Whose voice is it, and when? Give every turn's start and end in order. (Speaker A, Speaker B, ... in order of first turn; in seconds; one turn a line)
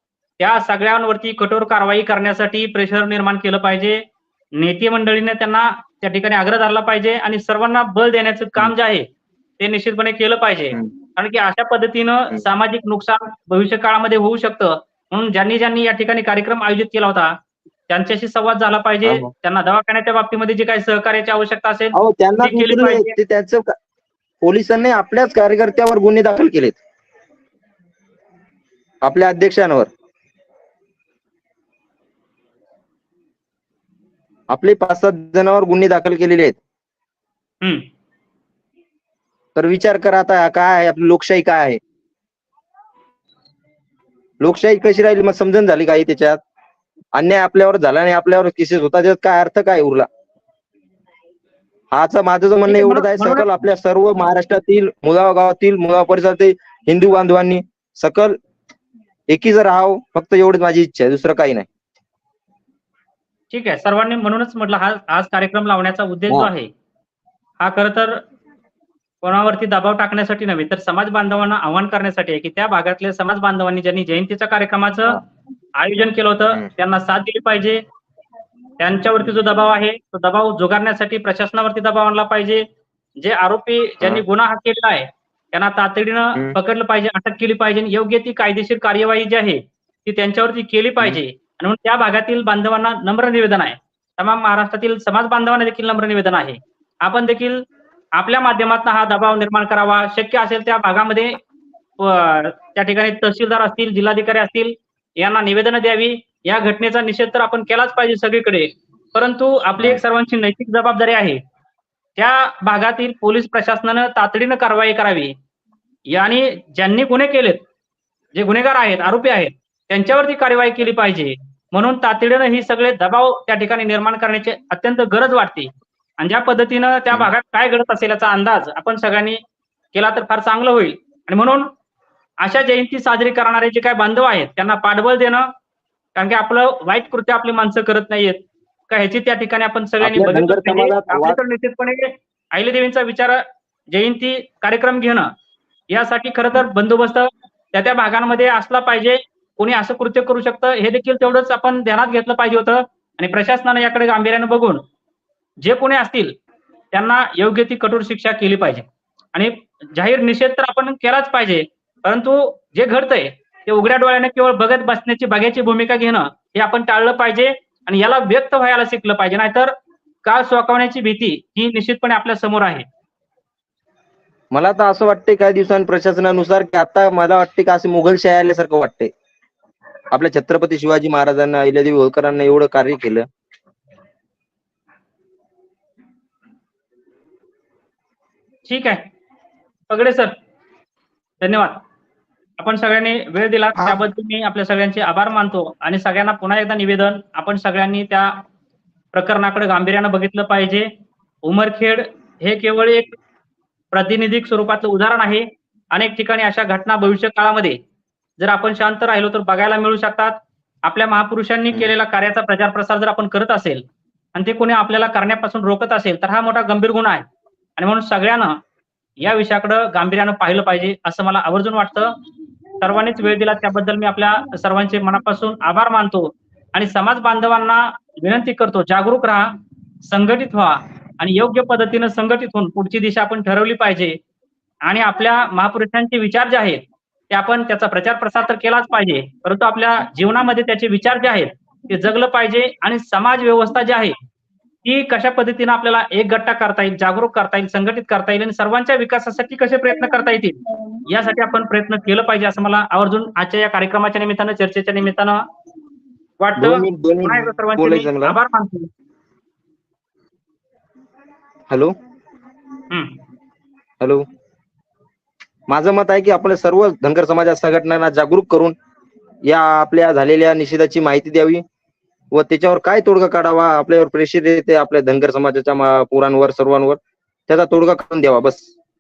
Speaker A: 0.4-4.0
Speaker A: 4.6-9.1
Speaker A: 9.6-17.4
Speaker A: 17.9-23.2
Speaker B: 21.9-23.7
Speaker B: 24.4-26.8
Speaker B: 29.0-29.9
Speaker B: 34.5-36.6
Speaker B: 39.5-41.8
Speaker B: 44.4-46.4
Speaker B: 47.1-50.1
Speaker B: 51.9-58.4
Speaker A: 52.7-53.5
Speaker B: 59.3-61.7
Speaker A: 63.5-66.7
Speaker A: 67.6-68.2
Speaker A: 69.2-75.2
Speaker A: 75.8-77.8
Speaker A: 78.8-82.7
Speaker A: 83.2-97.7
Speaker A: 98.2-101.4
Speaker A: 102.0-111.4
Speaker A: 112.2-115.3
Speaker A: 116.1-117.6
Speaker A: 118.3-129.4
Speaker A: 129.9-131.7
Speaker A: 132.4-135.5
Speaker A: 136.2-145.3
Speaker B: 140.0-141.4
Speaker A: 145.9-154.8
Speaker A: 155.6-156.3
Speaker A: 156.9-172.8
Speaker B: 174.5-179.1
Speaker B: 180.1-183.3
Speaker A: 188.7-189.0
Speaker A: 189.9-190.4
Speaker A: 191.4-191.8
Speaker A: 192.6-198.4
Speaker A: 199.1-200.9
Speaker A: 201.4-203.2
Speaker A: 203.9-207.8
Speaker A: 208.4-213.8
Speaker A: 214.3-217.3
Speaker A: 217.8-218.6
Speaker A: 219.2-222.2
Speaker A: 222.8-229.5
Speaker A: 230.1-234.2
Speaker A: 234.8-244.2
Speaker A: 244.8-255.4
Speaker A: 256.4-258.9
Speaker B: 256.6-258.4
Speaker B: 261.7-262.0
Speaker A: 262.9-263.2
Speaker B: 264.0-264.3
Speaker B: 265.7-268.8
Speaker B: 269.5-271.6
Speaker B: 272.3-278.7